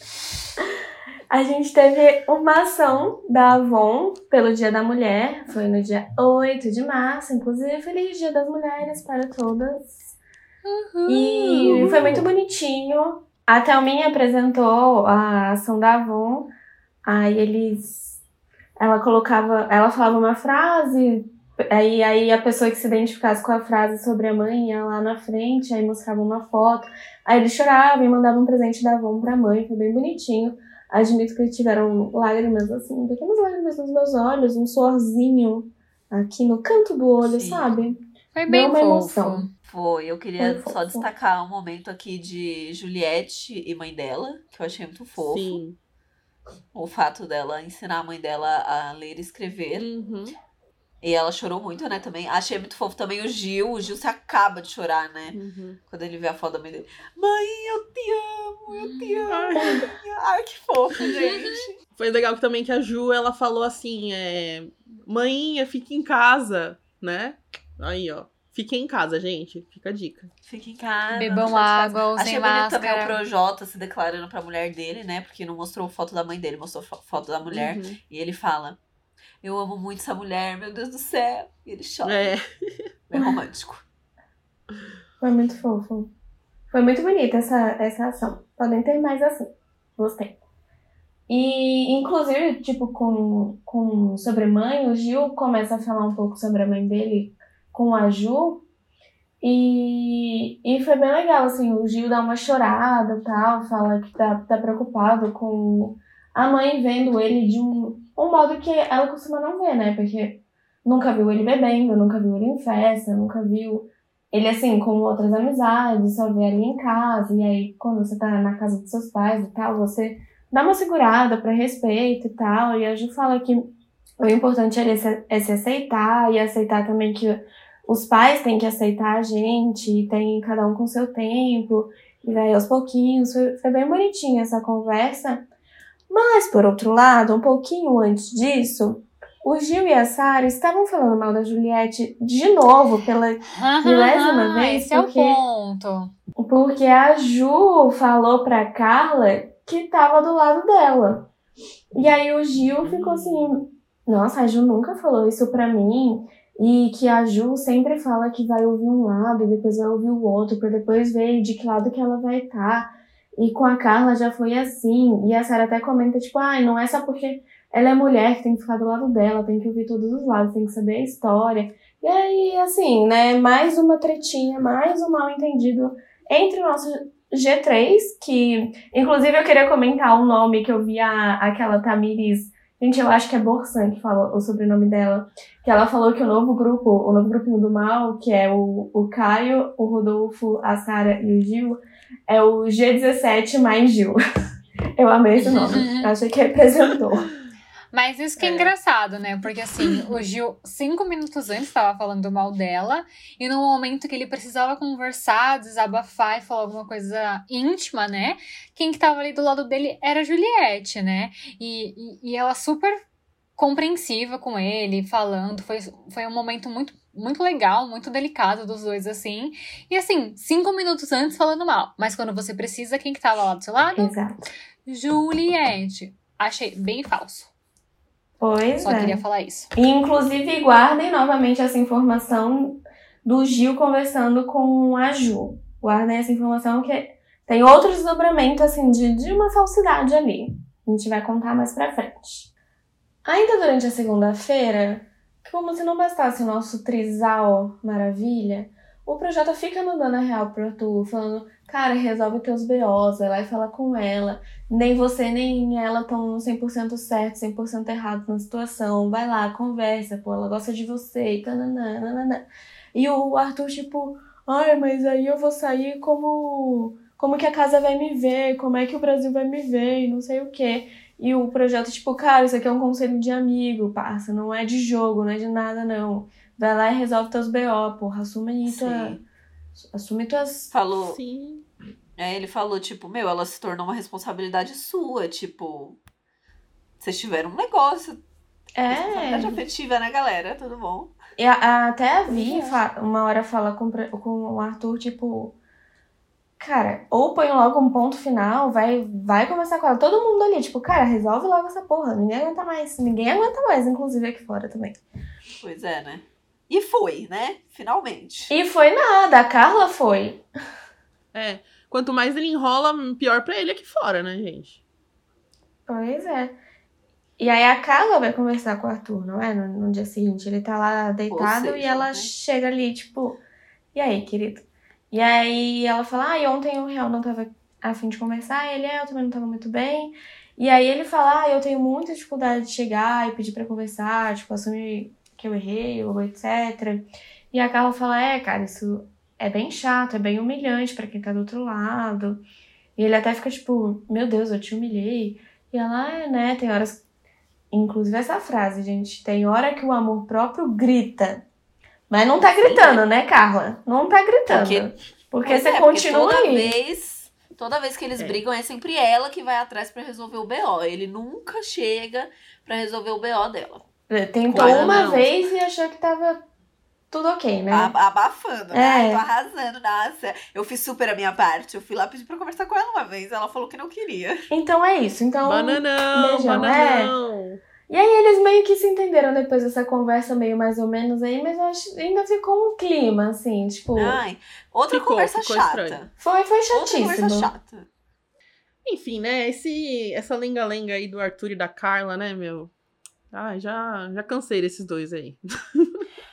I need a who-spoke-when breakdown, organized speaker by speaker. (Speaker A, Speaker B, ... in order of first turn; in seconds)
Speaker A: 1.3-10.2, 11.1-16.5, 17.0-18.2, 18.8-39.5, 40.4-41.0, 85.2-86.1, 86.7-89.5, 90.0-90.3, 91.3-98.6, 99.4-135.4, 136.1-145.4, 146.4-151.3, 151.9-194.2, 194.9-197.3, 223.9-224.3, 228.4-229.2, 229.7-242.5, 243.2-279.2, 279.8-280.7, 288.8-289.6, 291.4-295.6, 296.6-305.0, 308.5-310.4, 315.9-316.6, 317.4-323.4, 323.9-342.4, 342.9-347.0, 347.7-351.4, 352.1-356.7, 364.1-366.4, 367.1-367.9, 368.7-369.2, 374.5-377.1, 377.9-384.2, 386.2-387.5
Speaker B: 10.6-11.9, 38.3-39.5, 58.7-59.3, 61.0-61.6, 71.1-73.2, 143.6-146.1, 195.5-196.1, 197.9-213.0, 213.6-224.1, 224.8-227.5, 228.8-229.7
Speaker C: 11.6-12.3, 45.2-45.8, 49.8-50.4, 55.3-55.8, 59.3-59.9, 62.0-70.3, 77.5-78.0, 82.0-82.9, 152.8-153.6, 198.4-198.7, 281.0-281.6, 311.3-314.8, 364.5-365.3, 375.4-377.6, 384.9-386.0, 388.8-392.7, 393.3-396.0
Speaker D: 37.2-37.8, 39.6-45.6, 46.7-49.9, 51.0-55.4, 55.9-61.7, 70.4-78.8, 79.4-82.3, 83.1-83.8, 278.6-279.2, 280.7-281.2, 282.2-286.0, 287.0-288.2, 288.9-291.1, 292.4-292.6, 305.6-308.5, 321.3-322.3, 352.6-353.0, 354.5-354.9, 355.4-363.8, 364.5-365.2, 367.7-374.4, 383.9-386.1, 386.7-387.9